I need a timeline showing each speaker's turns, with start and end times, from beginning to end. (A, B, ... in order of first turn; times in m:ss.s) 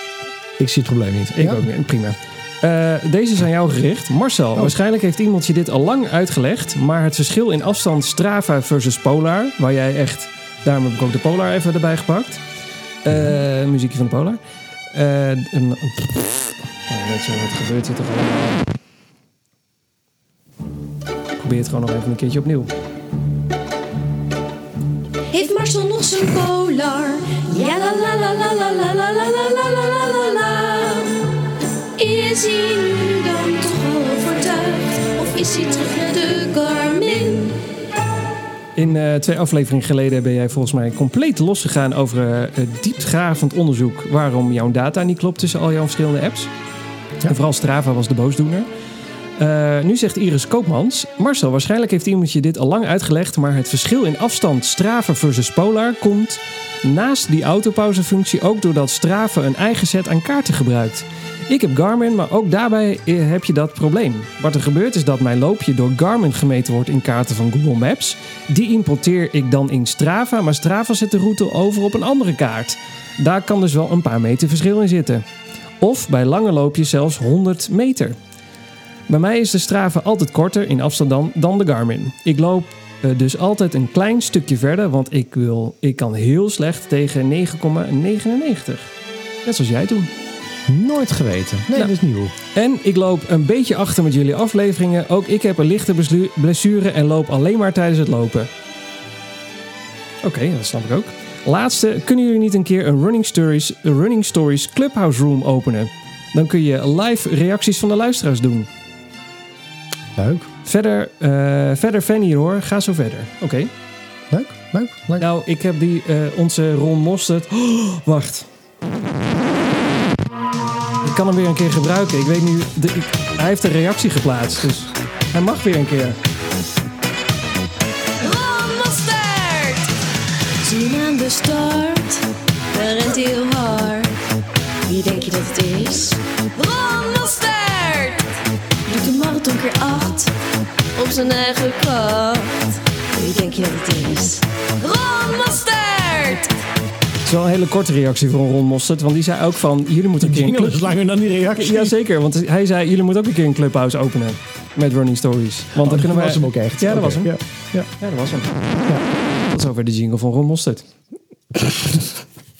0:00.6-0:01.7 A
0:01.4-0:12.4 B
0:13.0-0:14.4 B
0:14.9-0:18.6 B
0:21.4-0:22.7 B
0:25.3-0:31.3 C
0:32.0-0:37.7 C
0:38.8-0:46.5 B
0:47.3-0:48.7 B
0:49.4-1:15.3 B
1:15.8-1:18.2 B
1:19.1-1:28.9 B
1:29.4-1:30.1 B
1:30.7-1:32.3 A
1:32.5-1:38.5 B
1:40.2-1:48.7 B
1:50.2-1:50.5 A
1:50.6-1:53.7 B
1:54.3-1:55.3 A
1:55.2-1:58.5 B
2:01.0-2:06.2 B
2:08.2-2:10.0 C
2:10.6-2:14.2 C
2:14.9-2:20.3 C
2:21.0-2:26.6 C
2:27.2-2:30.9 B
2:30.2-2:32.0 A
2:31.5-2:37.3 B
2:35.8-2:37.9 A
2:38.0-2:38.5 B
2:39.5-2:40.9 B
2:41.5-2:42.1 A